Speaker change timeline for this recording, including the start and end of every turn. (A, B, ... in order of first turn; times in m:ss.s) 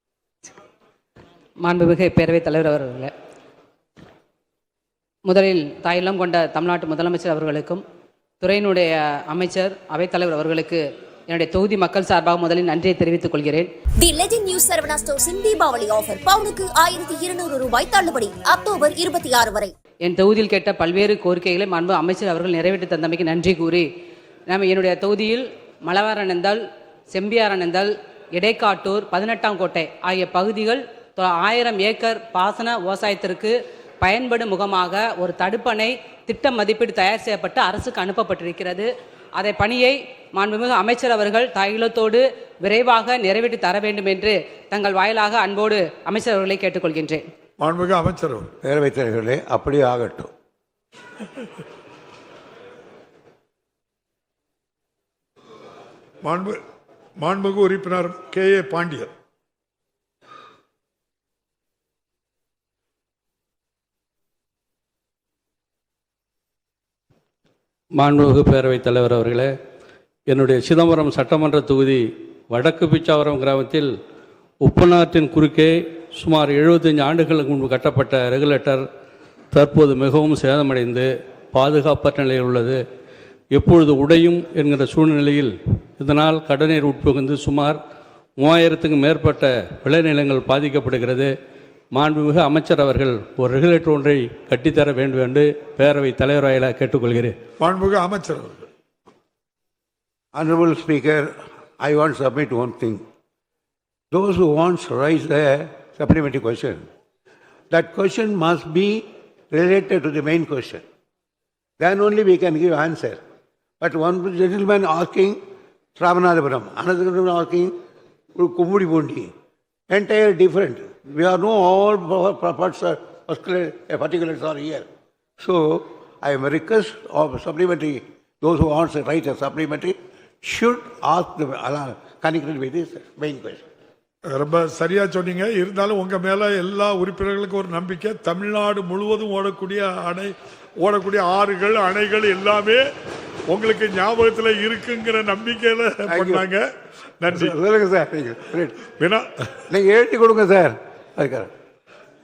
0:01.6-0:03.1 A
0:05.2-0:07.8 A
0:08.4-0:13.7 A
0:14.0-0:19.7 B
0:20.0-0:23.8 A
0:24.5-0:47.2 A
0:47.6-0:48.5 C
0:48.6-0:50.3 D
0:56.2-0:56.6 C
0:57.2-0:59.1 C
1:08.0-1:09.5 E
1:10.3-1:13.9 E
1:14.6-1:18.8 E
1:19.5-1:22.8 E
1:23.5-1:27.8 E
1:28.4-1:31.3 E
1:31.9-1:37.3 E
1:37.6-1:38.7 C
1:40.3-1:43.0 D
1:44.1-1:46.8 D
1:47.7-1:50.8 D
1:51.8-1:53.2 D
1:53.8-1:55.4 D
1:56.0-1:57.7 D
1:58.3-1:59.3 D
1:59.9-2:04.8 D
2:05.4-2:13.6 D
2:14.3-2:22.9 C
2:23.5-2:26.6 C
2:26.1-2:26.4 D
2:27.2-2:27.5 C
2:27.3-2:28.8 D
2:29.0-2:29.3 C
2:29.7-2:31.5 D